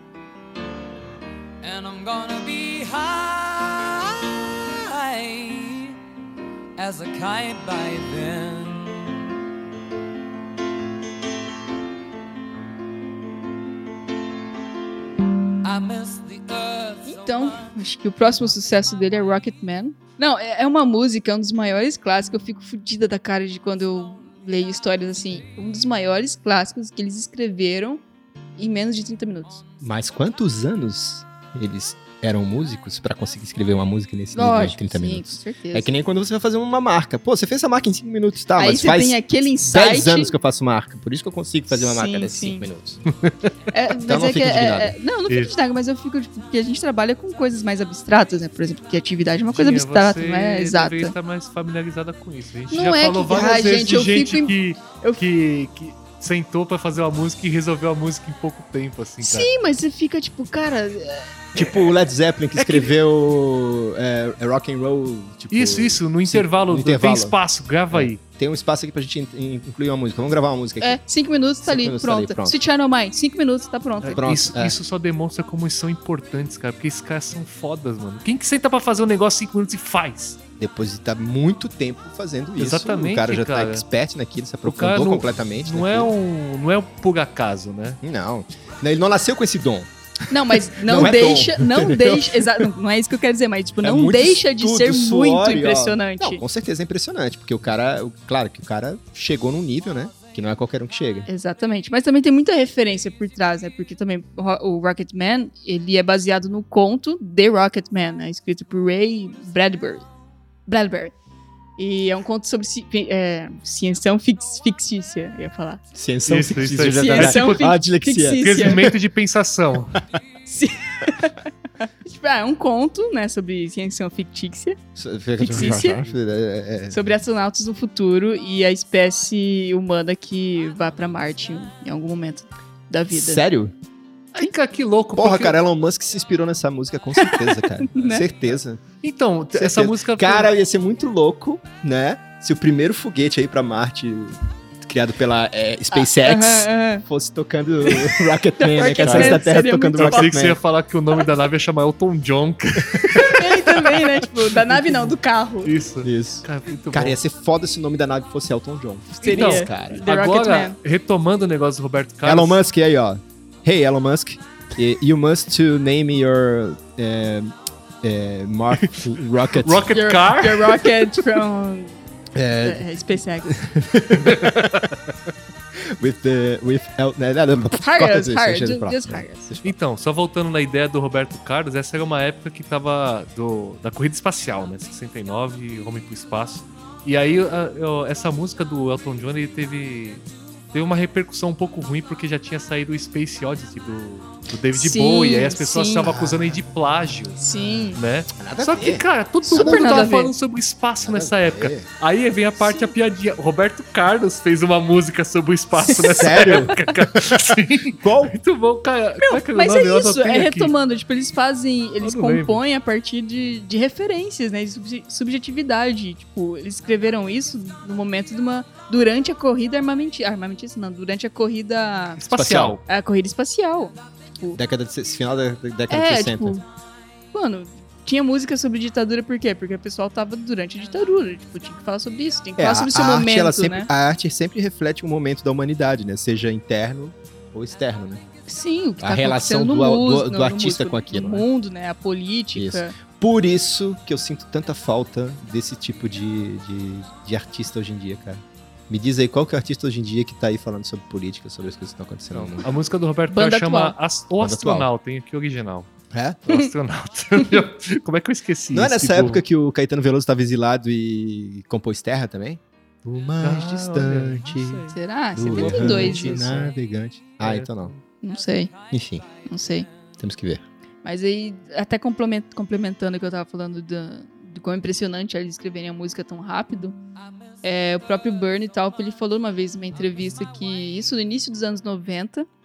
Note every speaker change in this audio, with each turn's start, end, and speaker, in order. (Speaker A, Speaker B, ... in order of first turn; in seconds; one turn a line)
Speaker A: 1.6-6.0
Speaker A: 6.8-9.2
Speaker A: 15.6-17.8
Speaker B: 17.0-28.0
Speaker B: 28.6-29.6
Speaker C: 29.8-43.0
Speaker B: 34.3-35.9
Speaker B: 38.6-40.3
Speaker B: 41.7-42.7
Speaker B: 43.7-51.1
Speaker C: 44.0-45.0
Speaker D: 45.3-45.5
Speaker D: 49.5-59.5
Speaker B: 52.7-55.2
Speaker B: 59.2-61.4
Speaker C: 61.5-67.3
Speaker D: 62.5-62.9
Speaker D: 65.5-68.2
Speaker C: 67.9-71.0
Speaker B: 70.8-74.2
Speaker C: 71.6-72.6
Speaker D: 74.0-80.4
Speaker C: 74.2-74.8
Speaker C: 80.6-86.1
Speaker D: 82.6-83.8
Speaker D: 84.6-88.0
Speaker C: 88.0-89.9
Speaker B: 90.3-96.4
Speaker C: 90.7-92.7
Speaker C: 93.8-101.3
Speaker B: 101.3-110.0
Speaker B: 110.7-111.1
Speaker B: 111.8-115.8
Speaker C: 115.9-119.0
Speaker D: 116.3-117.8
Speaker B: 117.0-118.9
Speaker D: 118.4-120.0
Speaker B: 120.5-121.5
Speaker B: 122.0-124.8
Speaker C: 125.0-127.0
Speaker B: 125.4-126.0
Speaker B: 126.9-133.4
Speaker C: 133.1-133.7
Speaker D: 134.3-135.6
Speaker C: 135.1-138.8
Speaker B: 137.2-138.2
Speaker D: 139.0-140.5
Speaker C: 139.5-150.6
Speaker B: 145.9-147.0
Speaker B: 147.8-150.3
Speaker D: 149.0-149.4
Speaker D: 150.0-155.1
Speaker B: 153.1-155.7
Speaker D: 155.6-157.2
Speaker C: 156.0-160.0
Speaker B: 159.2-160.8
Speaker D: 159.2-162.6
Speaker C: 162.2-169.9
Speaker D: 168.8-171.1
Speaker B: 169.9-172.0
Speaker C: 172.3-172.8
Speaker B: 172.6-173.5
Speaker C: 173.4-174.9
Speaker D: 174.2-174.9
Speaker C: 175.8-179.7
Speaker B: 177.8-179.4
Speaker D: 179.6-197.4
Speaker B: 194.7-196.2
Speaker C: 196.1-196.4
Speaker B: 197.4-198.0
Speaker D: 197.9-210.7
Speaker C: 198.4-200.1
Speaker B: 199.5-200.3
Speaker C: 201.0-201.9
Speaker B: 205.9-206.4
Speaker C: 206.2-208.4
Speaker B: 209.2-222.2
Speaker D: 212.0-212.6
Speaker D: 222.2-222.8
Speaker C: 222.3-222.8
Speaker B: 222.8-224.6
Speaker C: 224.6-226.5
Speaker B: 225.9-226.6
Speaker B: 227.3-233.9
Speaker C: 232.6-238.2
Speaker B: 238.5-242.9
Speaker C: 239.0-241.5
Speaker C: 242.5-252.7
Speaker D: 252.3-255.9
Speaker B: 253.3-253.9
Speaker C: 254.4-254.9
Speaker C: 256.1-256.4
Speaker D: 256.5-259.4
Speaker C: 258.7-264.8
Speaker D: 263.4-264.9
Speaker B: 264.9-266.5
Speaker C: 265.4-267.9
Speaker D: 265.5-266.7
Speaker D: 267.4-268.0
Speaker B: 268.2-268.7
Speaker C: 268.9-269.2
Speaker B: 269.4-269.9
Speaker C: 270.2-270.6
Speaker B: 271.0-277.0
Speaker B: 277.6-282.4